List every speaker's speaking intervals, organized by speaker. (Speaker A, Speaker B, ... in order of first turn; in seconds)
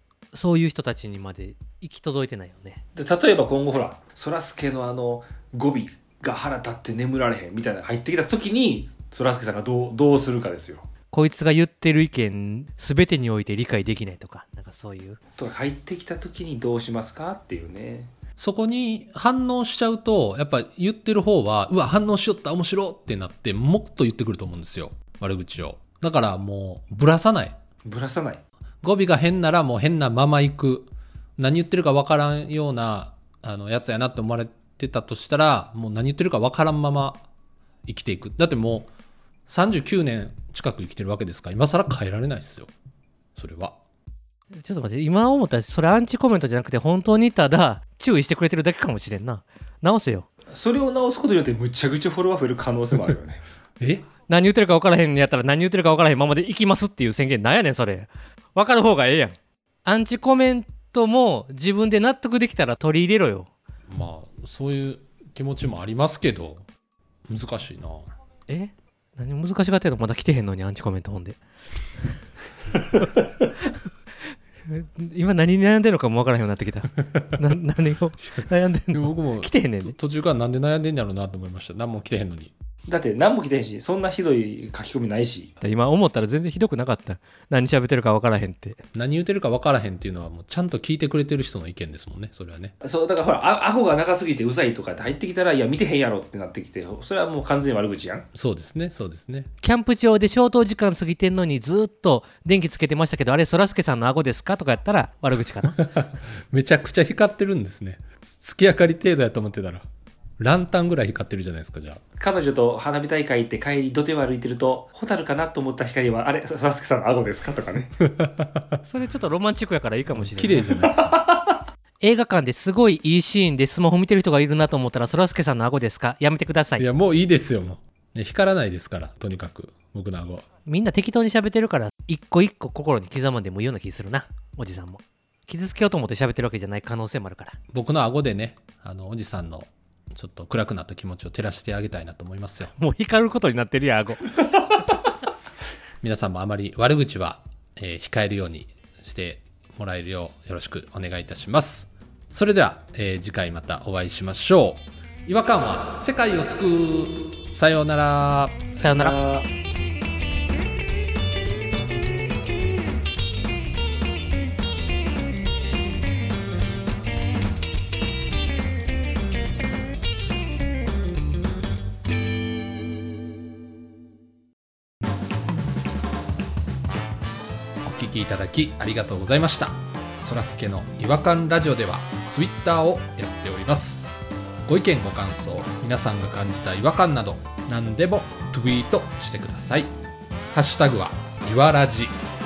Speaker A: 0.3-2.8, 11.1-15.2, 44.6-50.2, 54.3-63.5, 68.5-71.4, 74.7-80.0, 85.6-88.8, 99.6-105.8, 118.8-120.8, 122.0-126.9, 130.7-137.5, 142.8-144.5, 158.8-159.2
Speaker B: 3.0-10.8, 15.4-18.1, 27.9-28.4, 50.5-53.4, 82.9-85.5, 92.8-98.2, 112.2-118.0, 120.8-121.4, 159.0-159.4
Speaker C: 18.4-27.6, 28.8-37.2, 37.9-38.9, 39.5-42.7, 43.4-43.8, 53.8-54.1, 63.9-66.7, 67.3-68.1, 78.9-82.5, 88.9-92.7, 98.3-99.5, 105.8-109.8, 110.4-112.0, 118.0-118.8, 120.2-121.2, 126.8-130.4, 137.7-142.7, 146.0-159.1, 177.8-184.1, 184.7-189.9, 190.5-192.1